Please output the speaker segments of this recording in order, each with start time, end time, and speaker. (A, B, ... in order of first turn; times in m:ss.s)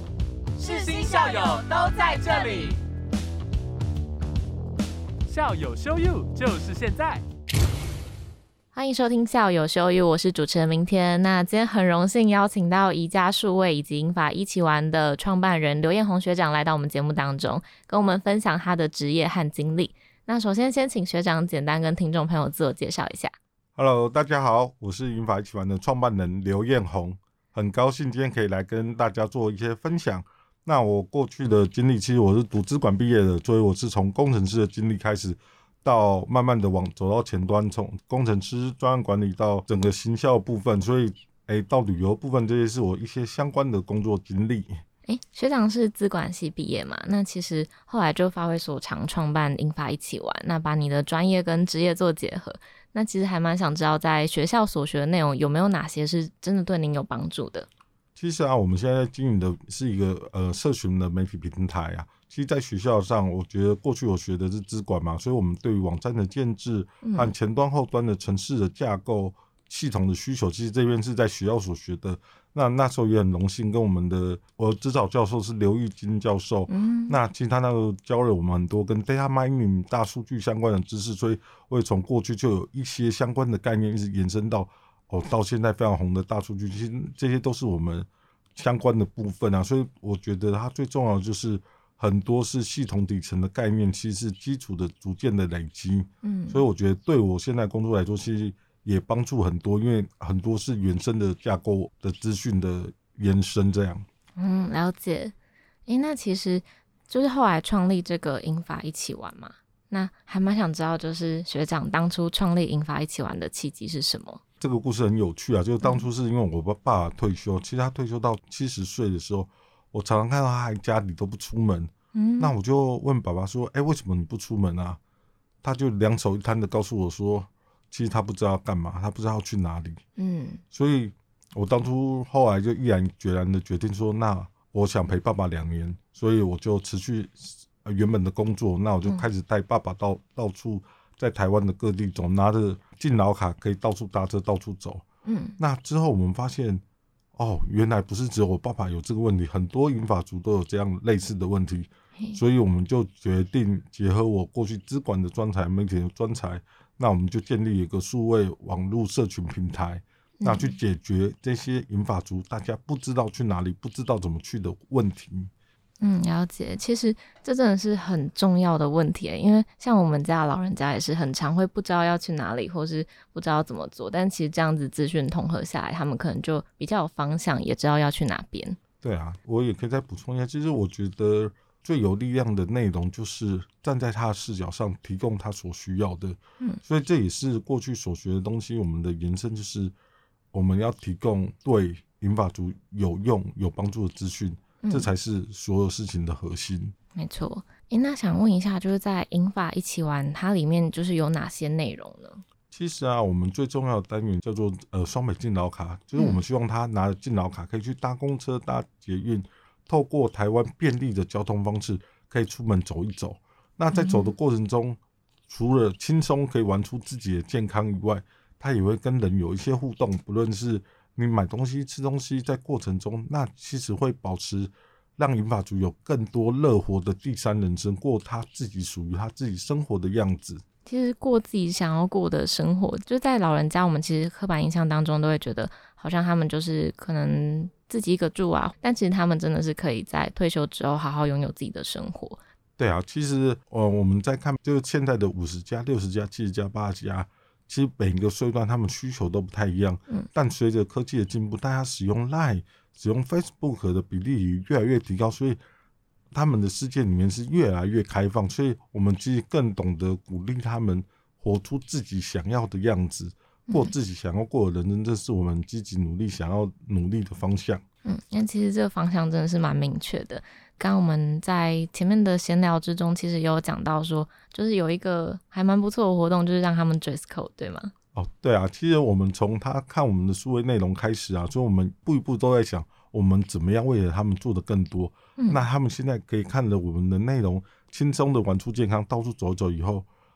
0:00.6-0:02.8 A
0:05.2-0:07.2 A
0:08.7-0:23.3 B
0:23.8-0:44.8 C
0:45.0-0:57.7 B
0:58.2-1:44.0 C
1:07.0-1:07.3 B
1:16.7-1:17.2 B
1:36.2-1:36.6 B
1:44.4-1:45.3 B
1:45.8-1:54.4 B
1:54.6-2:05.0 C
1:55.8-1:56.1 B
2:02.1-2:02.5 B
2:05.6-2:10.0 C
2:10.2-2:10.6 B
2:10.7-2:25.0 C
2:25.2-2:25.6 B
2:25.6-2:26.8 C
2:27.4-2:45.5 C
2:40.4-2:40.8 B
2:46.0-2:58.8 B
2:59.0-3:09.9 C
3:10.5-3:16.9 C
3:14.8-3:15.1 B
3:17.1-3:22.4 B
3:22.7-3:50.6 C
3:33.9-3:34.3 B
3:50.8-4:02.4 B
4:02.8-4:15.6 C
4:16.3-4:27.8 C
4:28.0-4:37.9 B
4:38.1-4:50.1 C
4:45.4-4:45.6 B